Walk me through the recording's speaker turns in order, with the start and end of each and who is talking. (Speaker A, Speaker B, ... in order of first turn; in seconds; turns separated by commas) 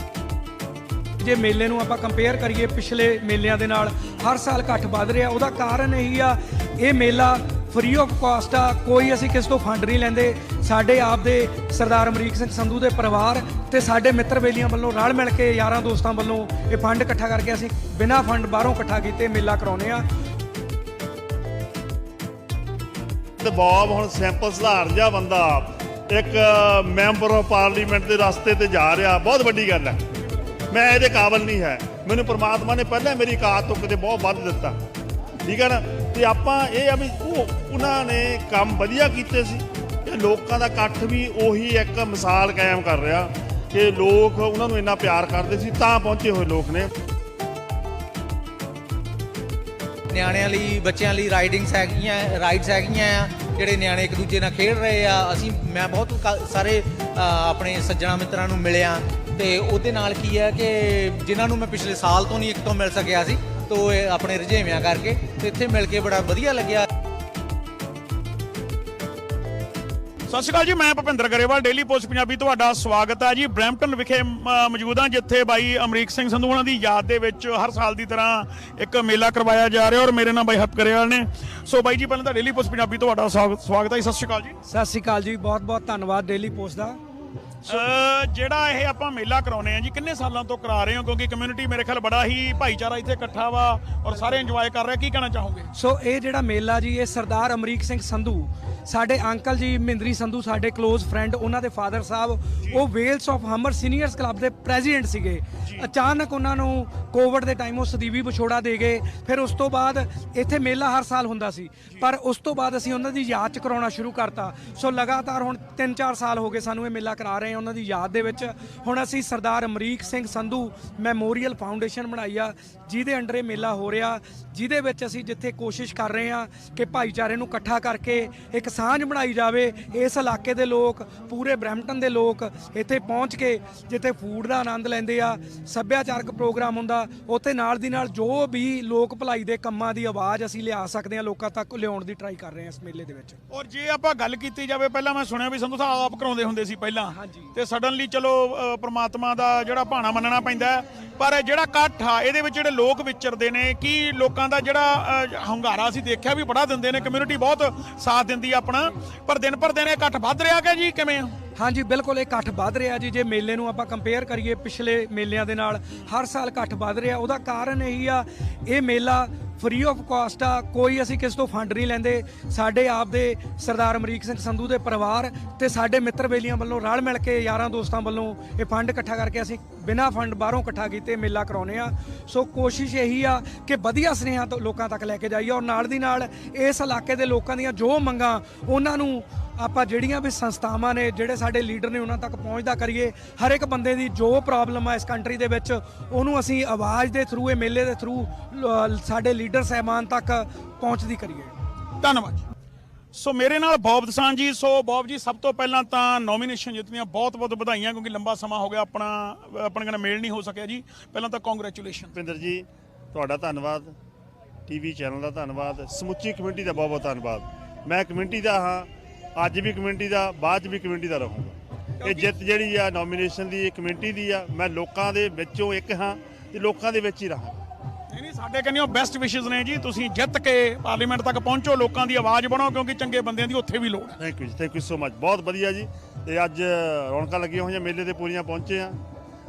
Speaker A: 1.2-20.1, Speaker B: 23.4-30.0, Speaker B: 30.7-34.8, Speaker B: 35.4-46.9, Speaker C: 50.1-66.9, Speaker D: 70.3-84.6, Speaker A: 84.7-87.0, Speaker D: 87.7-95.7, Speaker A: 95.7-143.4, Speaker D: 143.5-161.3, Speaker A: 147.2-147.5, Speaker A: 161.6-201.5, Speaker D: 202.0-202.5, Speaker D: 203.1-212.1, Speaker B: 212.1-213.9, Speaker B: 214.7-227.6, Speaker D: 222.0-222.3, Speaker D: 228.1-234.2, Speaker B: 234.2-239.0